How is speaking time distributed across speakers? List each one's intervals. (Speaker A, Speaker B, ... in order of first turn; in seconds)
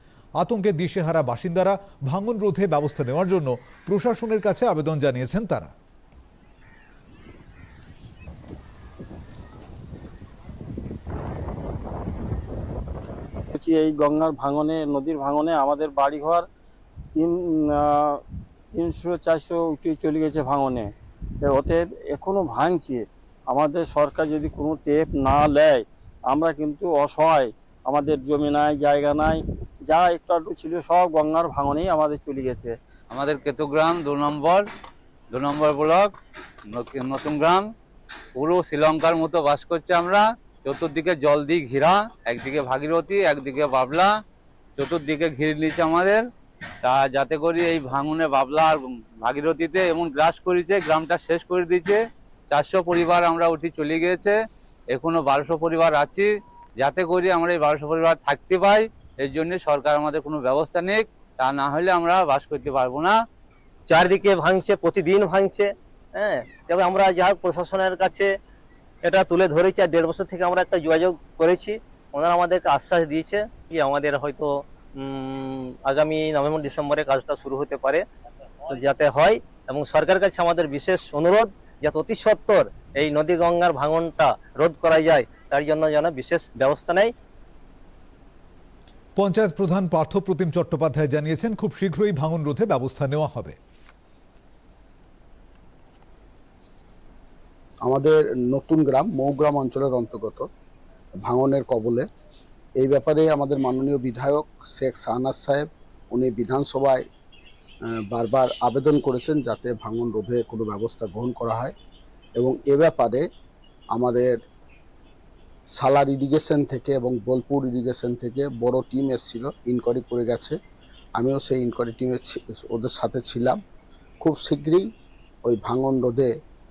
Speaker A: 0.4-5.7, 89.2-93.6
Speaker B: 13.5-16.5, 17.1-32.8
Speaker C: 33.1-34.7, 35.3-36.1, 36.7-37.7, 38.4-44.1, 44.8-46.2, 46.8-54.4, 54.9-63.2
Speaker D: 63.9-68.3, 69.0-78.0, 78.7-87.1
Speaker E: 97.8-100.5, 101.2-102.0, 102.8-107.0, 108.1-111.7, 112.4-113.2, 113.9-114.4, 115.8-120.6, 121.2-123.6, 124.2-124.9, 125.4-126.3